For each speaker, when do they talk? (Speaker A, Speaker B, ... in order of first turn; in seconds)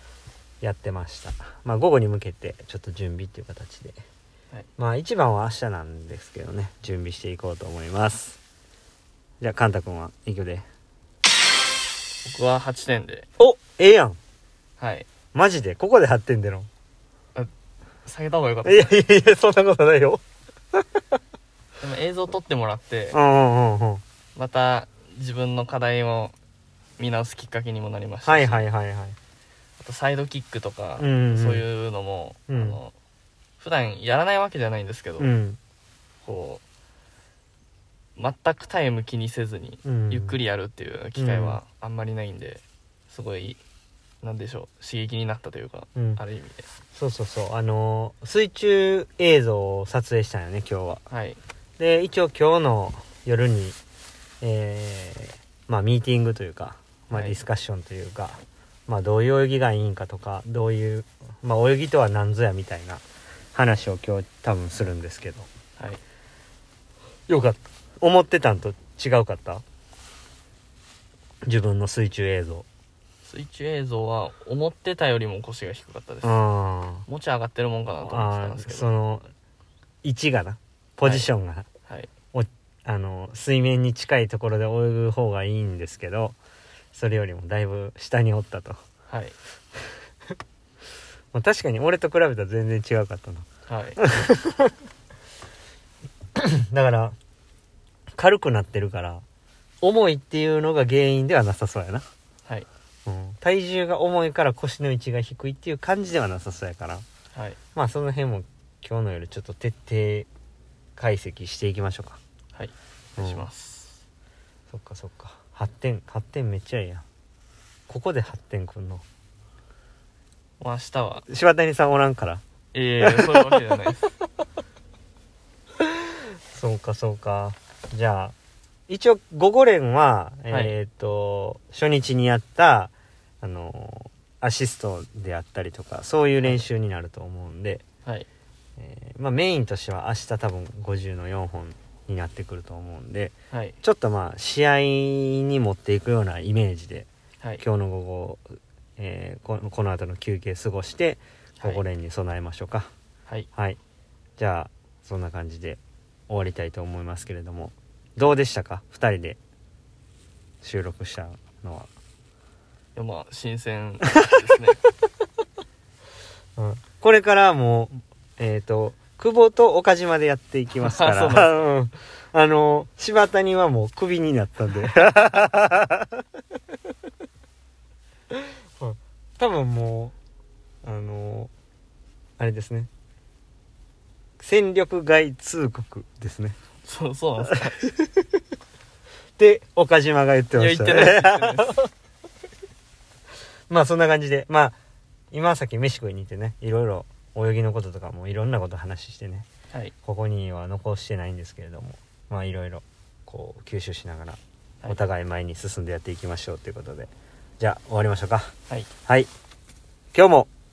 Speaker A: 0.6-4.0, 4.8-8.4, 9.4-10.6, 13.4-14.2, 15.3-16.7, 18.6-20.2, 23.1-24.0, 28.2-29.2, 31.0-31.6, 32.5-32.8, 35.2-35.6, 39.8-40.4, 41.1-41.6, 45.9-46.2, 46.9-51.0, 51.8-53.8, 54.4-63.0, 63.5-65.5, 67.3-69.6, 71.4-72.7, 76.2-77.0, 78.0-79.3, 80.0-81.7, 82.3-86.4, 86.9-88.8, 91.3-93.5, 94.0-94.7, 96.4-97.1, 98.2-99.2, 99.8-102.0, 103.0-107.0, 107.7-110.3, 111.0-112.2, 113.2-113.4, 114.7-117.0, 117.9-119.0, 121.3-122.4, 123.0-123.5, 126.5-128.3, 128.9-137.8, 138.8-147.1, 147.6-148.4, 149.0-152.9, 154.4-159.4, 160.6-161.9, 166.6-176.2, 178.8-180.1, 180.8-181.5, 182.4-182.9, 184.4-186.6, 189.4-191.9, 193.7-194.8, 195.3-199.5, 200.0-208.5, 210.1-210.5
Speaker B: 12.2-13.3, 14.8-15.1, 18.0-19.0, 21.8-23.2, 24.3-26.3, 27.0-28.7, 29.8-32.9, 33.6-35.3, 36.2-36.6, 38.1-43.6, 44.2-46.6, 51.1-51.4, 57.1-57.4, 73.2-76.4, 77.1-78.9, 81.0-81.3, 89.1-89.3, 93.7-94.1, 107.3-107.6, 112.5-114.0, 120.6-121.2, 122.7-124.1, 130.5-130.7, 143.5-143.8, 162.9-164.8, 170.8-171.7, 186.8-187.8, 190.5-191.8